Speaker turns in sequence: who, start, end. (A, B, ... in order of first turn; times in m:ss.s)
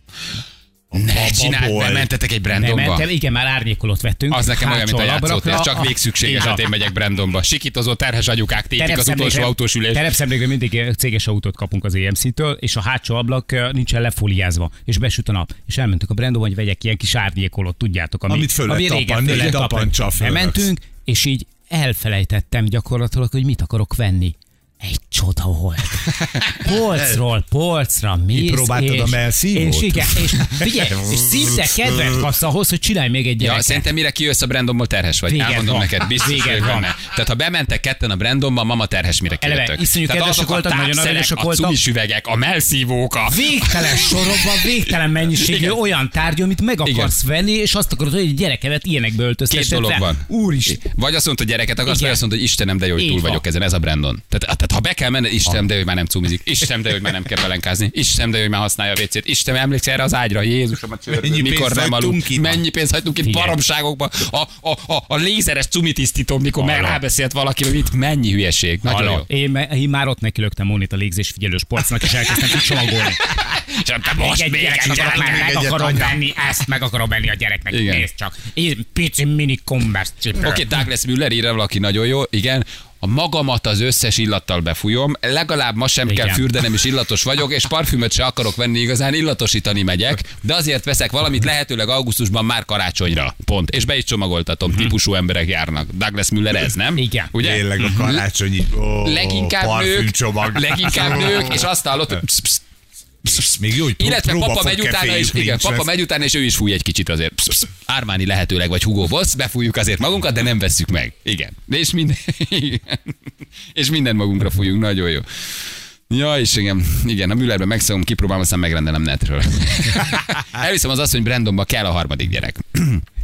0:00.9-0:02.1 A
0:00.9-0:03.1 B
0:02.5-0:06.8 C
0:04.3-0:10.0 B
0:08.8-0:33.8 C
0:18.3-0:20.7 A
0:26.3-0:26.6 B
0:28.3-0:31.7 A
0:33.4-0:44.8 B
0:35.3-0:36.9 C
0:39.4-0:41.8 C
0:43.2-0:50.8 C
0:45.4-0:45.8 B
0:46.8-0:47.1 B
0:49.5-1:09.2 B
0:51.8-0:52.2 C
0:53.0-0:53.4 C
1:01.1-1:02.6 A
1:03.2-1:03.6 C
1:06.6-1:07.0 C
1:08.8-1:13.4 C
1:13.0-1:15.6 B
1:14.1-1:20.6 C
1:14.8-1:16.2 A
1:17.7-1:18.0 B
1:20.4-1:38.2 B
1:26.1-1:26.5 C
1:37.0-1:37.3 C
1:37.4-1:41.6 A
1:39.0-1:42.6 B
1:43.2-1:53.1 B
1:43.4-1:45.9 A
1:53.7-2:03.0 B